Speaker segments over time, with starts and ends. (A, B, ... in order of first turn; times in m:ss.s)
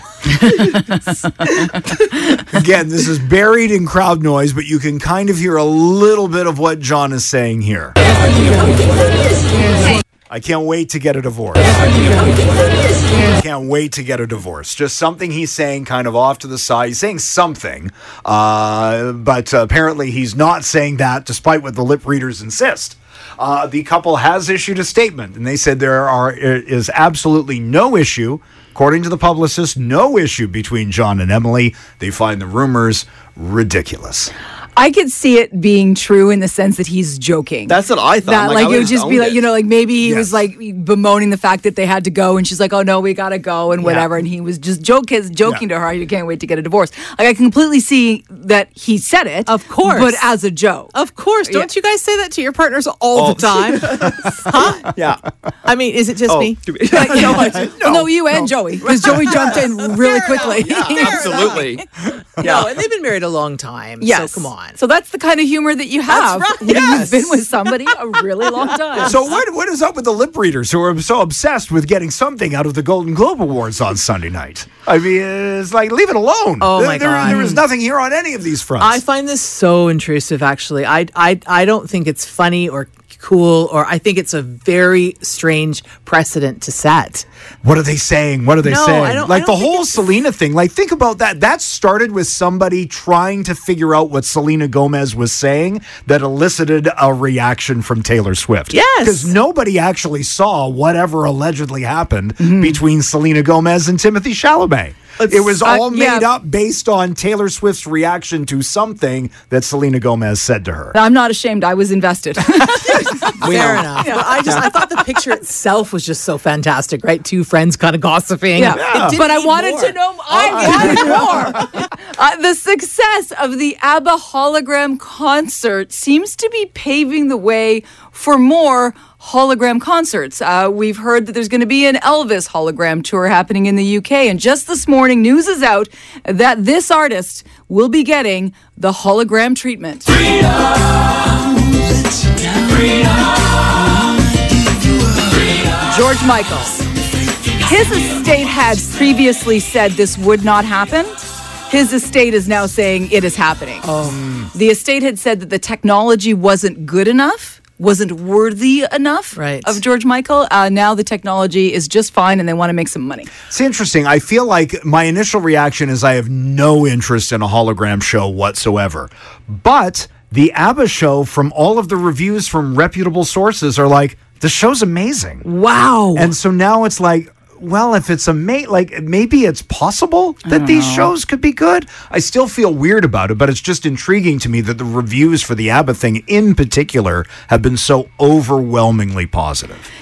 0:00.4-0:00.8 A
0:01.4-0:01.7 A
0:02.4-0:08.0 A
0:10.3-0:12.4 A
0:13.1-0:34.3 A
0:34.8-0:51.7 B
0:37.7-0:39.4 C
0:40.0-0:40.4 A
0:43.8-0:44.1 D
0:49.4-0:50.2 D
0:50.9-0:54.9 D
0:53.1-0:55.2 C
0:55.6-0:57.9 D
0:56.3-0:57.9 C
0:56.9-1:01.7 B
0:58.8-1:01.7 D
1:00.5-1:01.8 C
1:02.4-1:04.8 D
1:02.4-1:02.7 C
1:04.0-1:09.2 B
1:06.1-1:09.1 D
1:09.0-1:19.0 A
1:16.6-1:17.6 D
1:18.8-1:27.2 D
1:27.6-1:51.0 A
1:28.6-1:30.0 D
1:38.7-1:39.3 D
1:42.4-1:42.8 B
1:45.6-1:46.3 B
1:50.9-1:53.4 B
1:53.4-1:54.7 C
1:53.4-2:01.7 D
1:54.0-1:54.5 B
1:58.6-2:20.2 B
1:58.8-1:59.2 A
2:25.8-2:26.8 B
2:27.6-2:33.9 B
2:33.8-2:34.2 D
2:34.5-2:43.3 B
2:39.3-2:39.8 D
2:43.5-2:55.4 A
2:55.4-2:56.3 B
2:56.1-3:09.9 A
3:00.4-3:01.1 B